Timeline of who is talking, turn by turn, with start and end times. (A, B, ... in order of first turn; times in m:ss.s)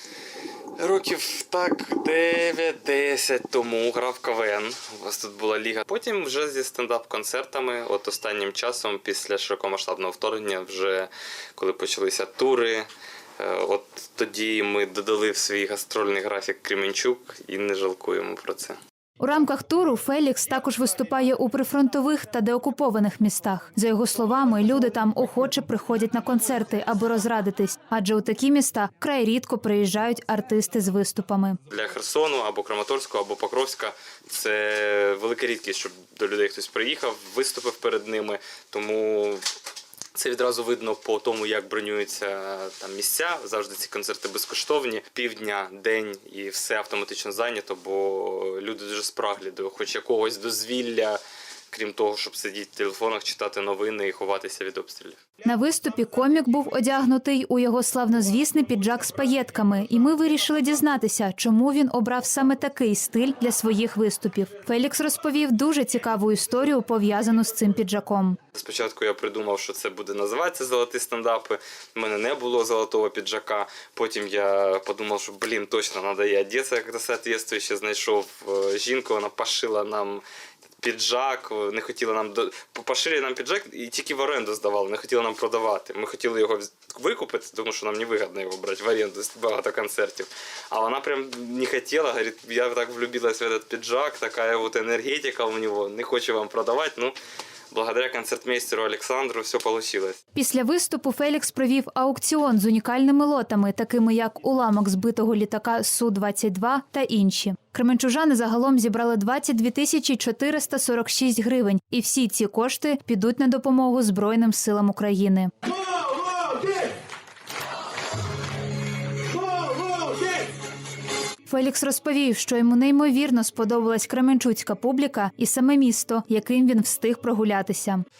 0:00.8-0:12.9 A
0:13.4-0:18.8 A
0:19.2-0:31.6 B
0:31.7-0:39.4 A
0:40.1-0:55.2 A
0:55.4-1:08.4 B
1:08.5-1:20.2 A
1:20.8-1:37.1 A
1:37.7-1:40.2 A
1:40.3-1:55.5 B
2:01.5-2:08.0 B